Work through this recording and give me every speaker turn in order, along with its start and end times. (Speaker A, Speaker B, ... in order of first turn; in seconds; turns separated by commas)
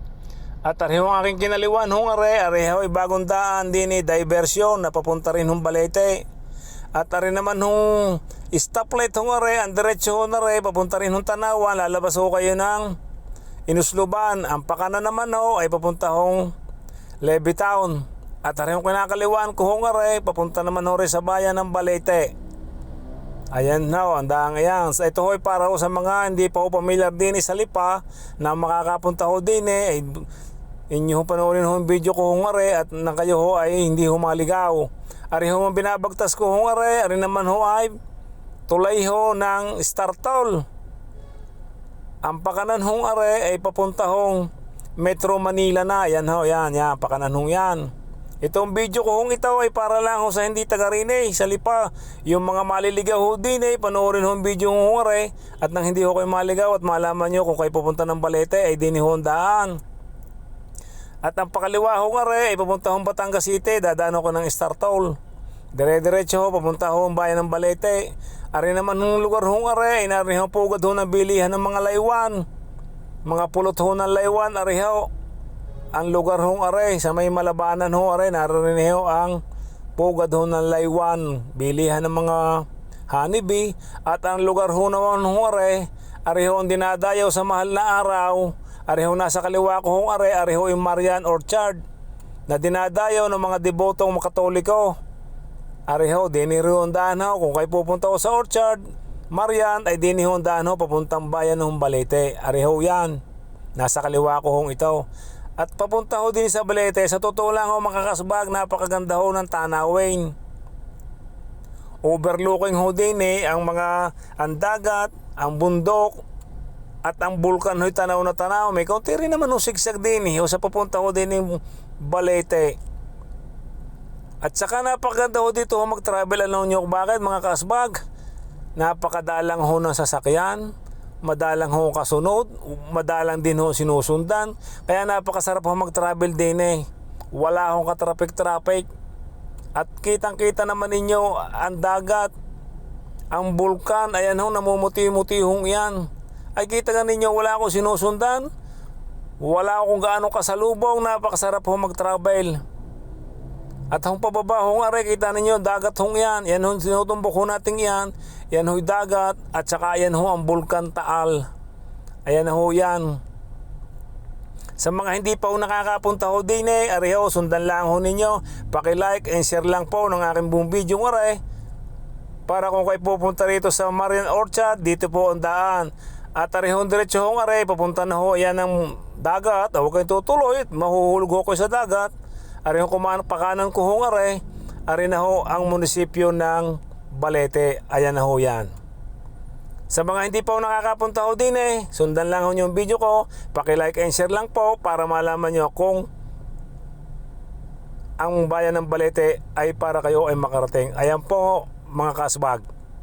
Speaker A: 0.6-6.2, Speaker A: 6.9-13.0, Speaker A: 13.7-16.5, Speaker A: 17.2-22.3, Speaker A: 23.5-30.2, Speaker A: 30.9-37.9, Speaker A: 38.7-40.6, Speaker A: 42.2-47.9, Speaker A: 48.4-59.8, Speaker A: 61.2-65.2, Speaker A: 65.7-72.4, Speaker A: 73.2-75.1, Speaker A: 75.9-79.4, Speaker A: 80.0-91.8, Speaker A: 92.5-95.0, Speaker A: 95.9-103.2, Speaker A: 103.8-105.0, Speaker A: 105.6-110.3, Speaker A: 112.0-116.2, Speaker A: 117.0-122.8, Speaker A: 124.4-128.0, Speaker A: 128.8-130.7, Speaker A: 131.2-138.9, Speaker A: 139.8-142.3, Speaker A: 143.3-148.5, Speaker A: 149.4-152.6, Speaker A: 153.9-161.5, Speaker A: 162.2-163.2, Speaker A: 164.8-171.4, Speaker A: 172.5-182.1, Speaker A: 182.6-188.7, Speaker A: 189.9-196.1, Speaker A: 198.2-202.7